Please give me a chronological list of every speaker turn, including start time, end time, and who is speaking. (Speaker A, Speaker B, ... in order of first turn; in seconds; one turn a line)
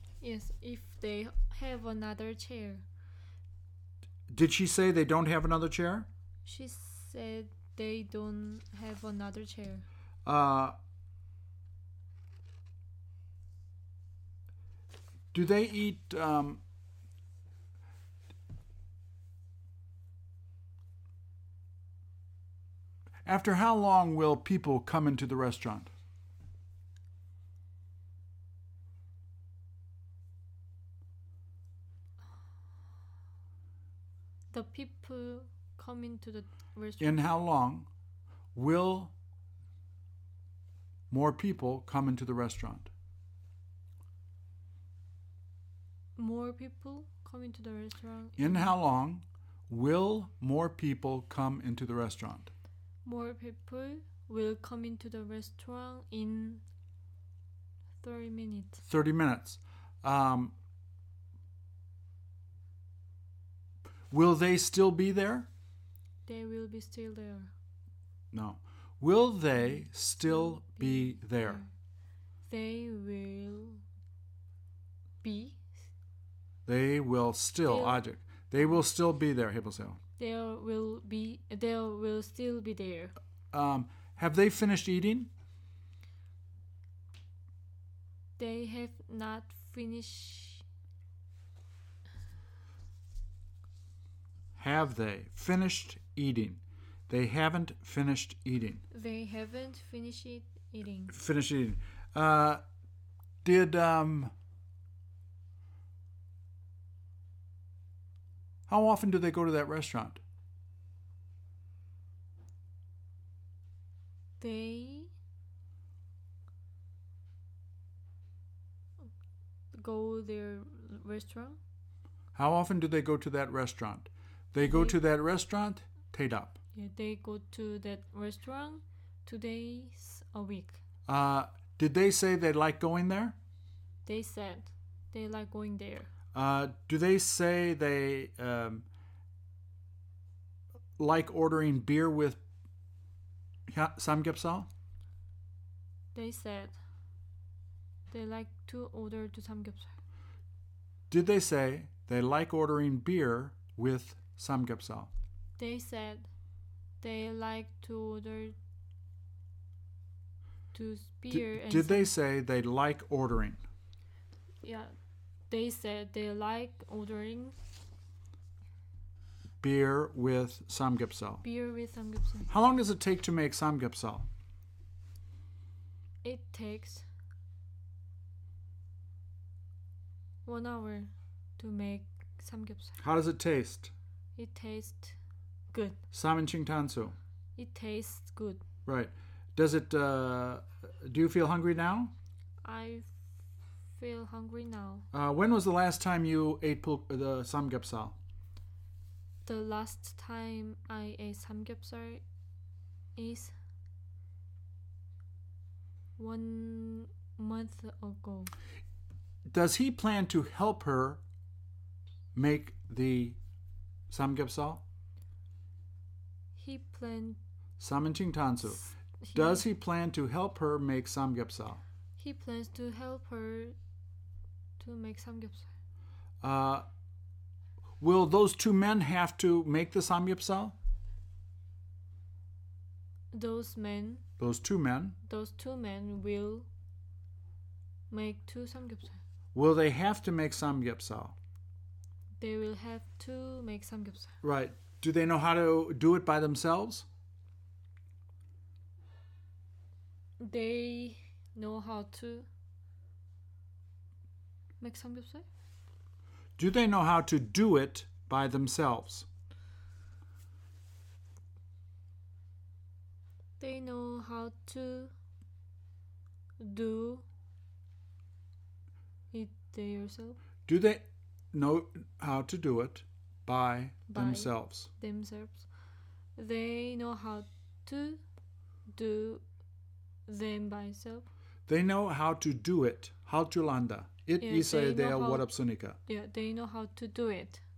Speaker A: 0.2-2.9
Speaker B: 4.3-6.1
Speaker A: 6.5-9.9
Speaker B: 10.2-10.8
Speaker B: 15.3-16.6
Speaker B: 23.2-25.9
Speaker A: 34.5-37.2
Speaker B: 37.0-37.9
Speaker B: 38.5-39.1
Speaker B: 41.1-42.9
Speaker A: 46.2-48.8
Speaker B: 48.4-52.5
Speaker A: 53.0-56.6
Speaker A: 58.0-58.8
Speaker B: 58.8-60.5
Speaker B: 64.1-65.5
Speaker A: 66.3-67.5
Speaker B: 68.3-71.6
Speaker A: 69.8-71.7
Speaker A: 72.5-73.8
Speaker A: 75.2-75.6
Speaker B: 76.7-80.0
Speaker A: 77.7-78.0
Speaker A: 80.2-83.1
Speaker B: 83.5-85.3
Speaker A: 88.4-90.7
Speaker B: 94.6-98.8
Speaker A: 98.9-101.2
Speaker B: 101.1-102.6
Speaker B: 103.4-104.3
Speaker B: 108.7-110.2
Speaker A: 114.4-115.1
Speaker A: 119.7-121.6
Speaker B: 122.3-126.6
Speaker A: 124.7-125.0
Speaker A: 126.8-130.8
Speaker B: 131.1-133.4
Speaker A: 134.1-136.1
Speaker B: 136.3-138.8
Speaker B: 141.0-142.4
Speaker B: 143.7-144.7
Speaker A: 146.1-146.8
Speaker A: 148.1-149.9
Speaker B: 151.1-155.1
Speaker A: 155.6-156.3
Speaker A: 157.0-158.6
Speaker A: 160.7-162.1
Speaker B: 161.3-163.6
Speaker A: 164.6-164.9
Speaker A: 165.5-167.6
Speaker B: 169.6-171.4
Speaker A: 171.4-172.5
Speaker B: 172.5-174.3
Speaker A: 176.2-177.1
Speaker A: 180.4-183.0
Speaker B: 183.0-183.9
Speaker A: 184.4-185.2
Speaker A: 185.7-186.0
Speaker B: 186.1-187.2
Speaker A: 187.6-188.6
Speaker B: 188.9-192.1
Speaker A: 192.6-193.2
Speaker A: 194.0-195.1
Speaker B: 195.1-198.2
Speaker A: 199.5-202.2
Speaker A: 203.2-203.5
Speaker A: 206.2-208.5
Speaker B: 209.5-211.2
Speaker B: 212.3-213.4
Speaker B: 214.1-214.8
Speaker A: 216.6-217.4
Speaker B: 217.8-221.8
Speaker A: 218.6-219.7
Speaker A: 222.2-223.8
Speaker A: 224.8-225.7
Speaker B: 226.4-226.9
Speaker B: 228.0-230.8
Speaker A: 233.3-234.2
Speaker B: 234.4-235.2
Speaker A: 235.3-236.7
Speaker A: 238.1-239.2
Speaker B: 239.5-241.3
Speaker A: 242.4-244.4
Speaker B: 244.4-247.1
Speaker A: 250.4-252.5
Speaker A: 254.8-255.5
Speaker B: 256.6-259.3
Speaker A: 263.6-265.1
Speaker A: 266.6-267.3
Speaker A: 269.3-270.4
Speaker B: 270.7-274.9
Speaker A: 274.1-275.7
Speaker A: 276.4-278.2
Speaker A: 278.9-279.4
Speaker A: 280.3-281.3
Speaker B: 281.7-286.0
Speaker A: 284.4-285.5
Speaker A: 286.1-287.6